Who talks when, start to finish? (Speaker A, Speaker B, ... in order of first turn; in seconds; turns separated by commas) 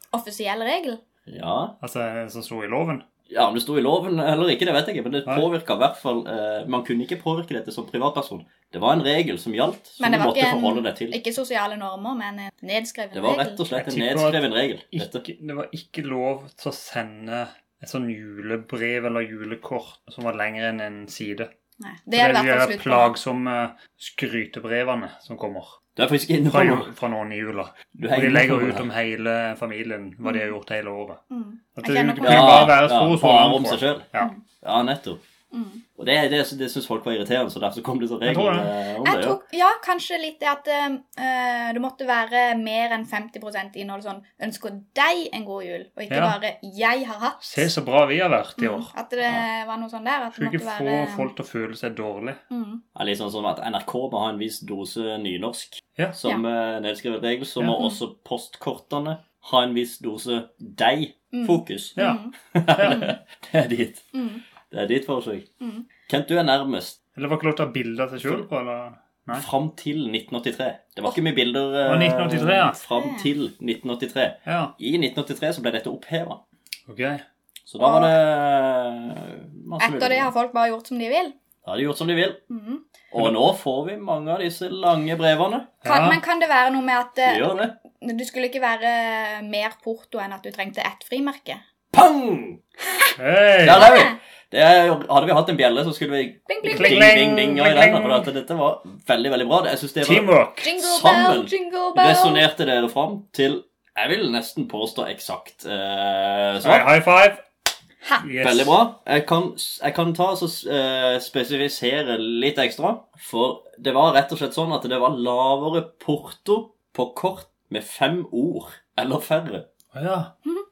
Speaker A: 0.1-1.0, Speaker B: 1.3-1.8, Speaker C: 1.8-3.0, Speaker B: 3.3-11.2, Speaker A: 10.0-13.6, Speaker B: 13.1-15.2, Speaker C: 13.8-21.5, Speaker A: 21.8-23.1, Speaker C: 22.1-25.8, Speaker B: 26.0-26.9, Speaker C: 26.4-31.2, Speaker B: 27.9-28.9, Speaker A: 30.2-30.5, Speaker A: 31.3-32.8, Speaker C: 31.8-34.3, Speaker B: 32.2-34.1, Speaker B: 34.6-35.2, Speaker A: 35.5-35.8, Speaker B: 36.0-39.4, Speaker C: 38.2-38.7, Speaker A: 39.0-47.7, Speaker C: 46.1-46.4, Speaker C: 47.4-48.9, Speaker A: 48.6-51.3, Speaker C: 50.4-52.4, Speaker A: 52.5-52.8, Speaker B: 53.0-62.0, Speaker A: 57.7-58.0, Speaker A: 61.3-62.4, Speaker B: 62.5-64.1, Speaker C: 62.8-63.1, Speaker A: 64.1-64.4, Speaker B: 64.7-65.5, Speaker A: 65.6-65.9, Speaker B: 66.1-67.0, Speaker C: 67.2-69.5, Speaker B: 69.3-76.4, Speaker C: 71.9-72.8, Speaker A: 72.9-73.3, Speaker C: 74.5-74.7, Speaker C: 76.9-77.2, Speaker B: 77.7-80.3, Speaker A: 77.8-78.2, Speaker A: 79.8-81.3, Speaker B: 81.6-82.4, Speaker A: 82.5-82.8, Speaker B: 83.1-85.7, Speaker C: 85.8-86.2, Speaker A: 85.8-91.6, Speaker B: 87.3-87.8, Speaker B: 91.9-92.6, Speaker C: 93.2-93.8, Speaker B: 93.6-106.9, Speaker A: 93.8-94.2, Speaker A: 96.5-97.1, Speaker C: 96.7-98.3, Speaker C: 100.0-100.7, Speaker A: 100.6-102.5, Speaker C: 106.6-107.4, Speaker C: 108.2-108.7, Speaker B: 108.4-119.7, Speaker C: 119.9-120.3